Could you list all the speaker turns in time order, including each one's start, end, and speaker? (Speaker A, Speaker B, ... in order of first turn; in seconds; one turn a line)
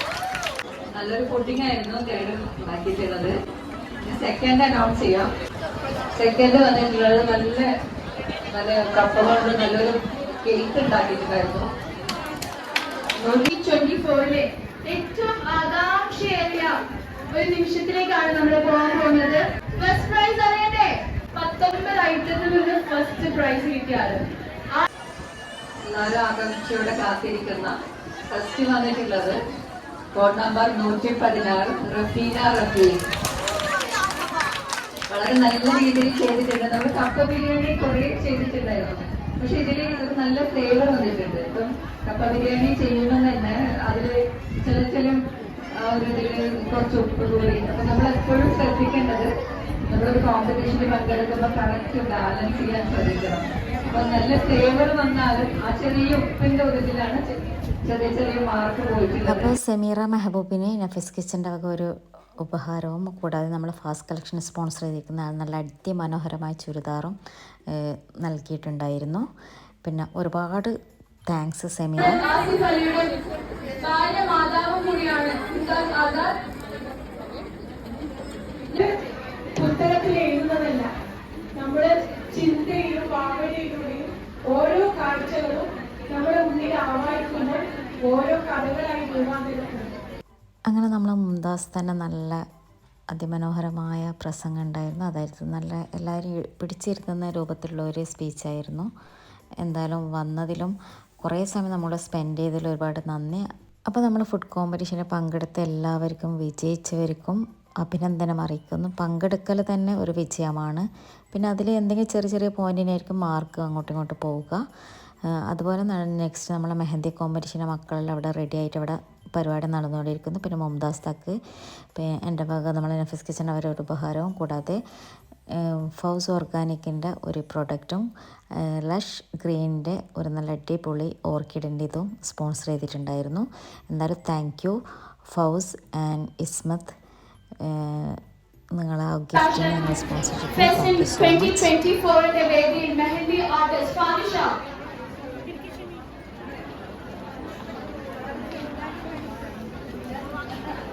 Speaker A: 0.9-3.3
Speaker A: 4.0-5.3
Speaker A: 6.2-7.7
Speaker A: 8.5-11.7
Speaker B: 13.2-16.8
Speaker B: 17.3-24.2
Speaker A: 25.9-27.7
Speaker A: 28.3-29.4
Speaker A: 30.1-33.0
Speaker A: 35.1-44.1
Speaker A: 44.6-45.2
Speaker A: 45.8-49.3
Speaker A: 49.9-57.2
Speaker A: 57.9-59.5
Speaker C: 59.2-67.2
Speaker C: 67.7-69.3
Speaker C: 69.8-70.7
Speaker C: 71.3-72.2
Speaker B: 72.0-73.1
Speaker B: 73.8-76.3
Speaker D: 79.6-80.9
Speaker D: 81.6-89.9
Speaker C: 90.7-92.4
Speaker C: 93.1-98.9
Speaker C: 99.6-114.6
Speaker C: 115.5-121.4
Speaker C: 121.9-124.8
Speaker C: 125.5-134.8
Speaker C: 135.3-137.0
Speaker C: 137.6-138.2
Speaker C: 138.8-141.7
Speaker B: 139.3-139.8
Speaker B: 140.6-144.5